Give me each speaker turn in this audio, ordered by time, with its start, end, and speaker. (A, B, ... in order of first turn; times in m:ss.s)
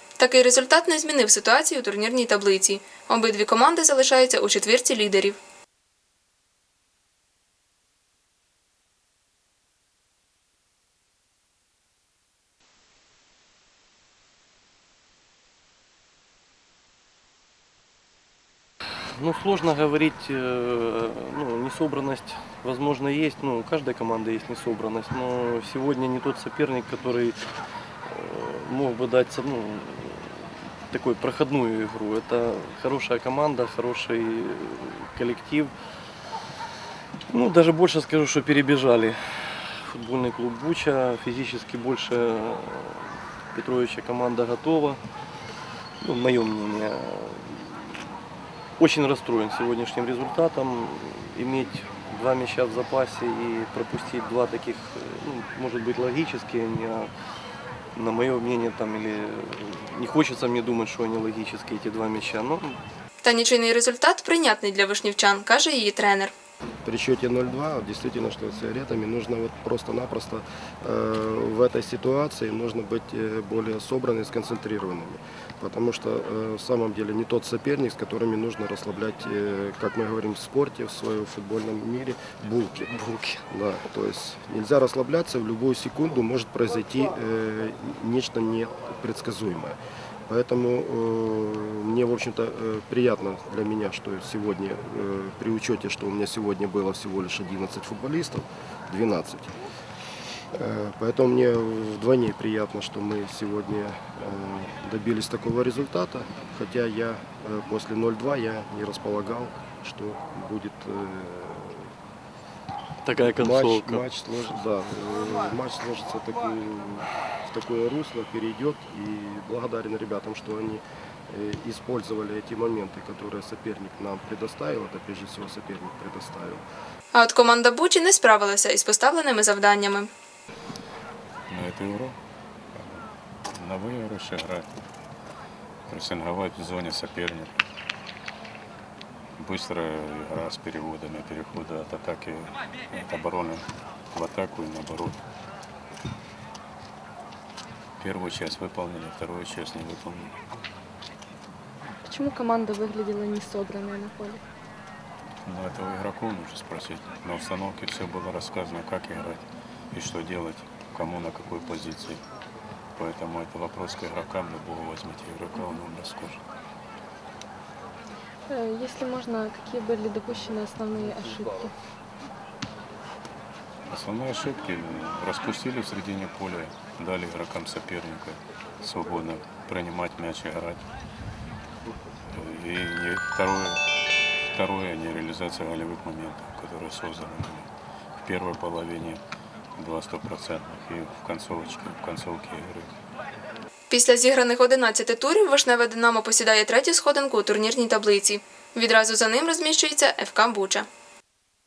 0:00.2-0:05.4 A
0:19.1-0:27.5 B
0:28.1-0:35.8 B
0:37.3-0:45.0 B
0:46.0-0:48.1 B
0:48.8-0:57.1 B
0:58.0-1:02.8 B
1:03.2-1:06.3 A
1:06.8-1:39.6 C
1:40.5-1:51.9 C
1:53.0-1:54.1 B
1:53.2-2:06.6 C
2:07.1-2:10.1 A
2:11.5-2:12.2 D
2:12.7-2:14.7 D
2:15.9-2:17.6 D
2:19.4-2:25.2 D
2:28.0-2:30.4 D
2:32.0-2:34.4 E
2:35.4-2:42.2 D
2:43.0-2:46.4 D
2:48.5-2:51.8 E
2:53.9-3:00.8 D
3:02.3-3:03.8 D
3:04.4-3:09.2 D
3:09.8-3:12.9 D
3:13.9-3:20.9 A